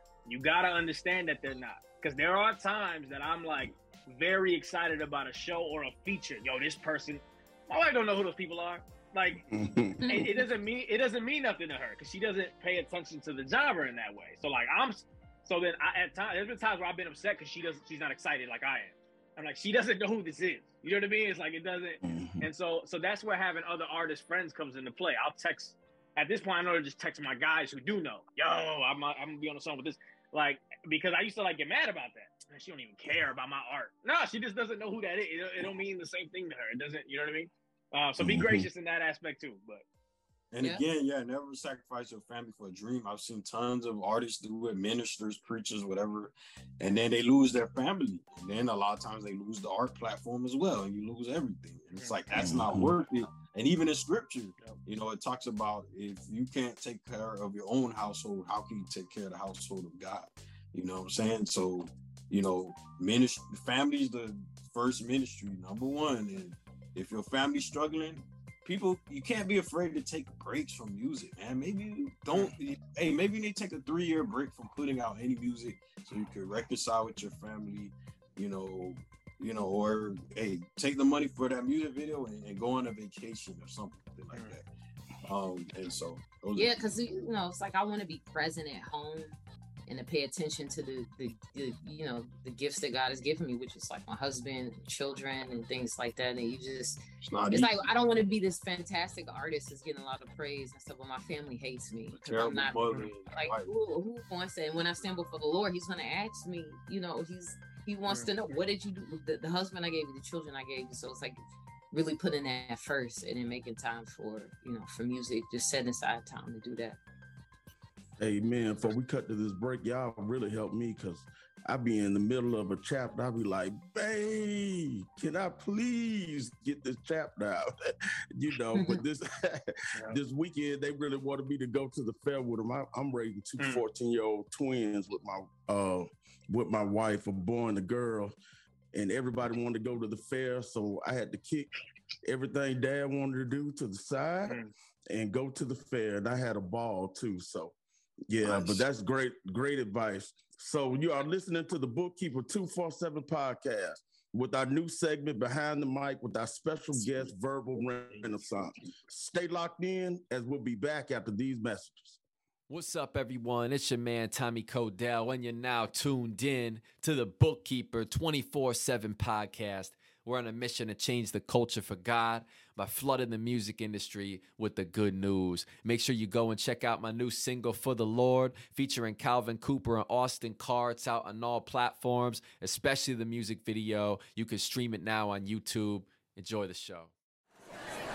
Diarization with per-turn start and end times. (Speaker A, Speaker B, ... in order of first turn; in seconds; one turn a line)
Speaker A: 0.2-9.5
Speaker B: 9.5-10.3
Speaker A: 10.1-39.8
Speaker B: 22.0-22.5
Speaker B: 38.2-38.7
Speaker C: 40.5-84.6
Speaker D: 40.6-40.8
Speaker B: 52.3-52.9
Speaker C: 85.2-86.8
Speaker D: 86.5-111.4
Speaker C: 97.2-97.9
Speaker C: 102.1-103.7
Speaker D: 111.9-117.0
Speaker B: 118.2-127.7
Speaker B: 128.3-138.3
Speaker B: 138.9-141.7
Speaker B: 142.2-147.8
Speaker A: 144.4-144.7
Speaker B: 148.3-162.2
Speaker C: 148.4-148.8
Speaker E: 162.7-187.1